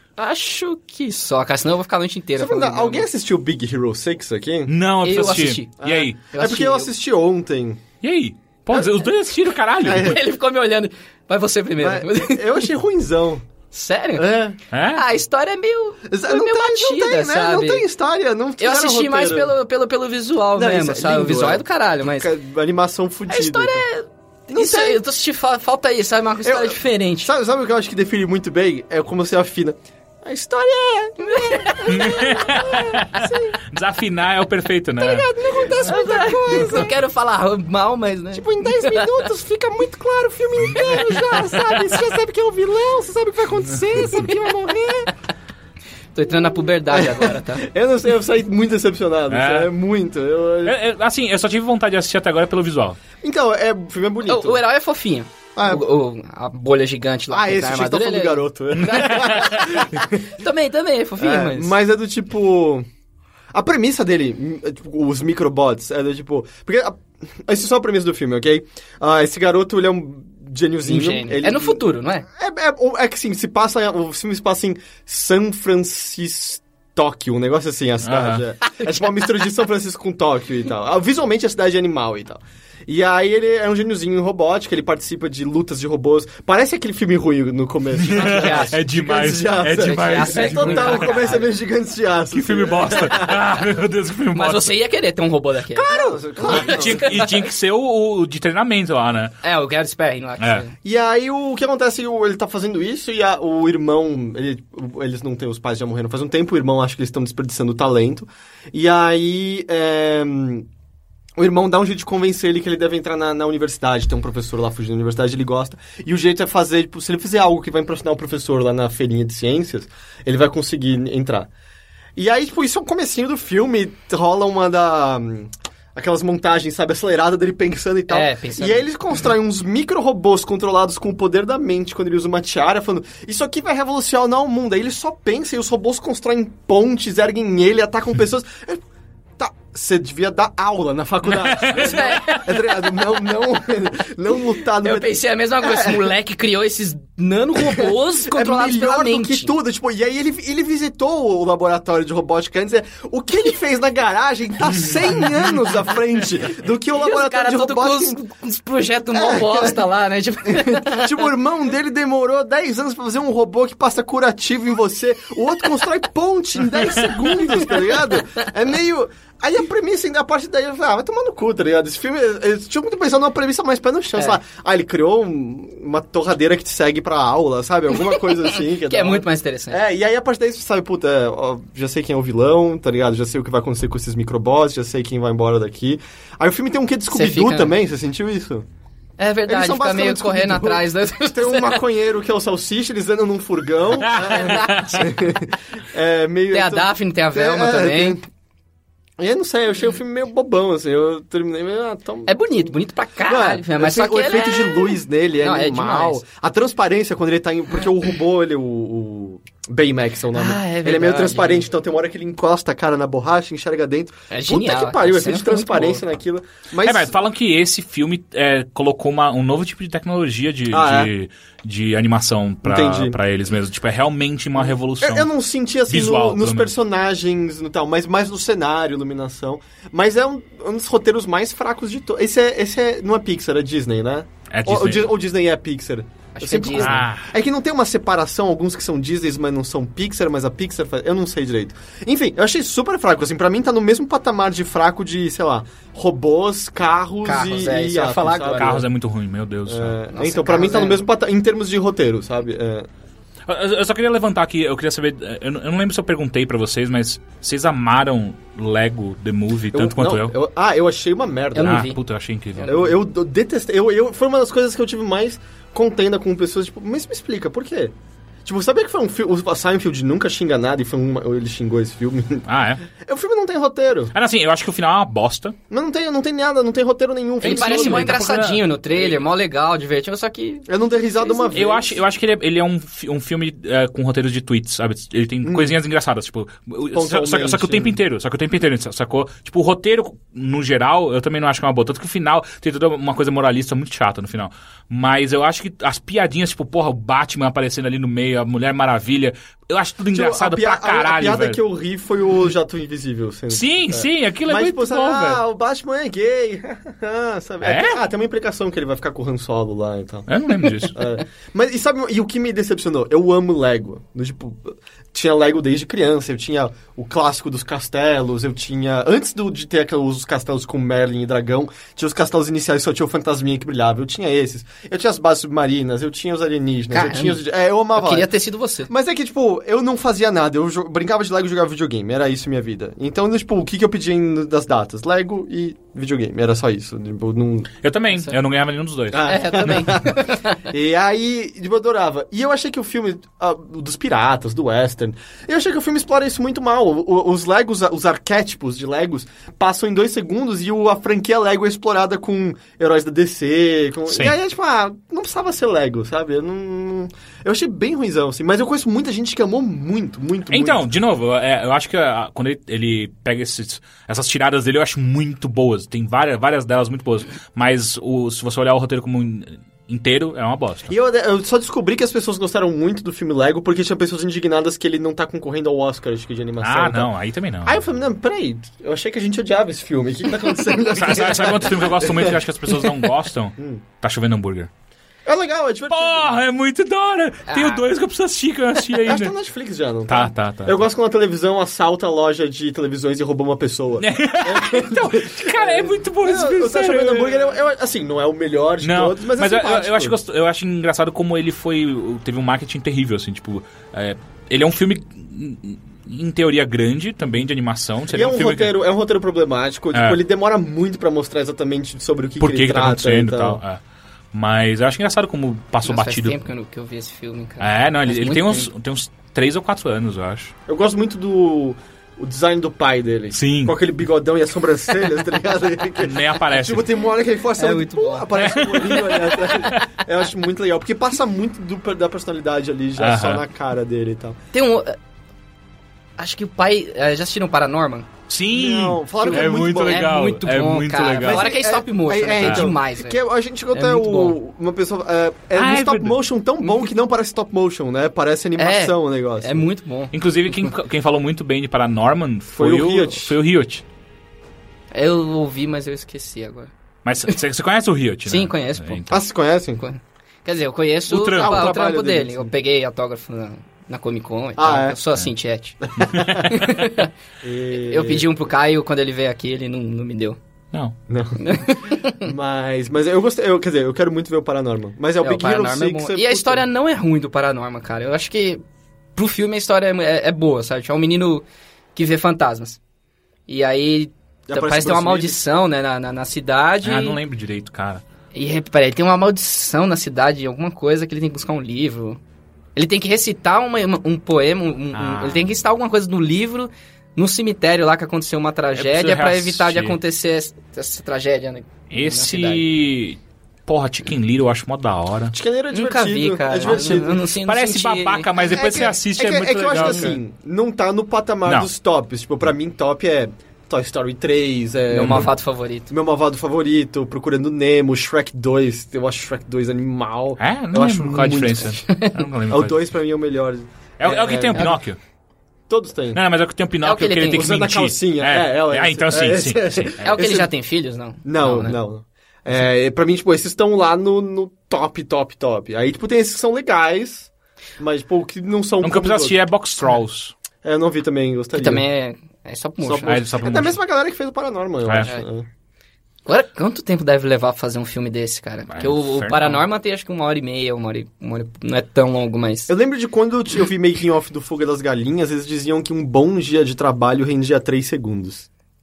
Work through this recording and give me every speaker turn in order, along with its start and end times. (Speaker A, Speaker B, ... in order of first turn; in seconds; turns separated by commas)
Speaker A: 0.2-3.0, Speaker B: 2.4-4.7, Speaker C: 4.7-6.2, Speaker A: 5.0-6.9, Speaker B: 5.8-7.8, Speaker C: 8.0-10.2, Speaker A: 9.8-12.7, Speaker B: 9.8-10.2, Speaker B: 11.8-13.5, Speaker A: 13.7-14.2, Speaker B: 14.2-14.6, Speaker C: 14.7-15.0, Speaker A: 14.9-17.9, Speaker B: 16.1-19.5, Speaker A: 18.6-22.3, Speaker B: 20.6-23.9, Speaker A: 23.3-27.3, Speaker B: 24.5-25.0, Speaker B: 26.4-33.6, Speaker A: 31.2-32.4, Speaker C: 31.9-35.3, Speaker B: 35.0-36.9, Speaker A: 35.7-39.3, Speaker B: 38.3-45.1, Speaker C: 43.9-44.3, Speaker A: 46.1-47.7, Speaker B: 46.9-50.8, Speaker C: 49.3-49.7, Speaker C: 50.6-53.0, Speaker B: 53.2-54.6, Speaker A: 54.3-61.7, Speaker B: 55.6-55.8, Speaker B: 57.3-60.3, Speaker C: 58.8-59.7, Speaker B: 61.2-62.9, Speaker B: 63.5-71.8, Speaker A: 70.8-72.3, Speaker B: 72.4-93.4, Speaker C: 78.0-78.5, Speaker C: 88.0-91.1, Speaker A: 88.1-88.8, Speaker A: 89.6-91.5, Speaker C: 92.3-94.7, Speaker A: 94.3-97.4, Speaker B: 95.7-97.3, Speaker C: 96.4-99.3, Speaker A: 99.4-100.7, Speaker C: 100.4-100.7, Speaker B: 100.8-110.7, Speaker B: 111.4-121.5, Speaker B: 122.2-138.8, Speaker A: 128.1-128.9, Speaker B: 139.4-146.1, Speaker C: 141.3-142.4, Speaker A: 141.7-142.6, Speaker A: 144.8-149.5, Speaker B: 147.6-158.2, Speaker A: 157.0-161.2, Speaker B: 159.1-159.8, Speaker B: 160.5-188.7, Speaker A: 178.4-179.8, Speaker A: 187.1-187.7, Speaker A: 189.2-191.8, Speaker B: 189.5-198.2, Speaker C: 194.0-195.1, Speaker A: 194.2-195.1, Speaker A: 196.5-198.2, Speaker B: 199.2-202.7, Speaker A: 202.3-206.2, Speaker B: 203.3-217.1, Speaker A: 210.3-211.7, Speaker A: 214.3-216.0, Speaker C: 216.8-225.3, Speaker B: 220.7-221.1, Speaker B: 222.6-223.2, Speaker B: 224.6-248.8, Speaker C: 225.9-226.8, Speaker C: 234.5-235.1, Speaker A: 236.3-237.1, Speaker C: 236.8-237.3, Speaker A: 247.2-248.8, Speaker C: 248.6-250.0, Speaker B: 249.7-252.9, Speaker A: 250.1-251.0, Speaker C: 253.5-260.3, Speaker B: 259.7-261.9, Speaker A: 261.6-262.0, Speaker C: 261.6-262.7, Speaker A: 262.6-262.8, Speaker B: 262.6-267.9, Speaker B: 268.4-274.1, Speaker C: 272.5-272.8, Speaker C: 274.1-275.6, Speaker B: 275.7-278.2, Speaker C: 277.4-278.6, Speaker A: 277.4-280.7, Speaker B: 280.7-282.0, Speaker A: 281.2-281.6, Speaker C: 281.5-301.6, Speaker B: 285.4-285.8, Speaker B: 286.9-288.0, Speaker B: 300.1-310.3, Speaker C: 303.5-305.4, Speaker C: 307.6-308.0, Speaker C: 310.3-310.9, Speaker B: 310.9-328.3, Speaker A: 326.9-327.4, Speaker A: 327.9-328.9, Speaker B: 328.9-337.7, Speaker C: 337.8-339.9, Speaker B: 339.1-360.8, Speaker A: 339.3-340.6, Speaker C: 354.1-354.4, Speaker C: 360.5-370.9, Speaker B: 370.9-377.1, Speaker C: 376.6-377.8, Speaker B: 377.6-382.9, Speaker C: 380.9-384.7, Speaker B: 383.6-383.8, Speaker B: 385.3-386.4, Speaker C: 385.9-389.3, Speaker A: 387.5-387.8, Speaker B: 389.0-400.2, Speaker C: 390.1-390.8, Speaker C: 394.0-397.4, Speaker C: 398.8-408.8, Speaker B: 408.1-413.6, Speaker C: 409.9-410.2, Speaker C: 412.4-413.8, Speaker C: 414.3-416.4, Speaker A: 415.9-418.7, Speaker C: 417.6-420.5, Speaker B: 420.7-434.4, Speaker C: 423.3-423.8, Speaker C: 426.0-426.9, Speaker A: 427.6-428.3, Speaker C: 428.4-429.9, Speaker C: 433.0-433.4, Speaker A: 434.5-435.0, Speaker A: 436.2-438.1, Speaker C: 438.3-441.5, Speaker B: 438.5-440.1, Speaker A: 439.2-443.2, Speaker B: 441.2-449.7, Speaker C: 442.4-442.7, Speaker A: 443.7-444.4, Speaker C: 445.5-446.2, Speaker A: 446.6-446.9, Speaker A: 448.6-450.7, Speaker C: 450.1-453.8, Speaker B: 452.5-453.3, Speaker A: 454.9-456.7, Speaker C: 457.1-459.2, Speaker A: 458.3-459.0, Speaker B: 459.1-459.8, Speaker A: 459.8-467.1, Speaker C: 461.1-461.7, Speaker B: 461.2-462.5, Speaker B: 464.6-465.0, Speaker B: 465.9-466.5, Speaker C: 466.0-466.8, Speaker B: 467.4-468.3, Speaker A: 467.7-470.4, Speaker B: 471.1-471.6, Speaker A: 471.4-472.3, Speaker B: 472.2-476.7, Speaker A: 475.2-478.6, Speaker A: 479.2-482.8, Speaker A: 483.5-487.2, Speaker B: 484.5-485.4, Speaker C: 486.8-488.0, Speaker A: 488.3-492.2, Speaker A: 492.8-502.6, Speaker C: 494.9-495.5, Speaker C: 498.7-500.0, Speaker C: 501.9-505.4, Speaker B: 505.3-507.2, Speaker A: 505.7-508.9, Speaker C: 506.6-510.2, Speaker B: 508.4-515.3, Speaker A: 509.8-510.1, Speaker A: 514.9-515.9, Speaker C: 514.9-515.3, Speaker B: 515.9-521.8, Speaker C: 520.4-522.9, Speaker A: 521.9-522.1, Speaker B: 522.5-524.8, Speaker C: 524.0-525.0, Speaker B: 525.7-526.2, Speaker C: 526.1-530.2, Speaker A: 526.8-527.5, Speaker B: 527.3-530.5, Speaker A: 530.0-531.8, Speaker B: 531.2-539.4, Speaker C: 538.8-540.3, Speaker B: 540.6-541.9, Speaker A: 541.6-543.3, Speaker B: 542.8-545.5, Speaker C: 543.0-543.8, Speaker C: 544.8-545.1, Speaker A: 546.3-552.7, Speaker C: 548.7-549.6, Speaker B: 552.7-558.5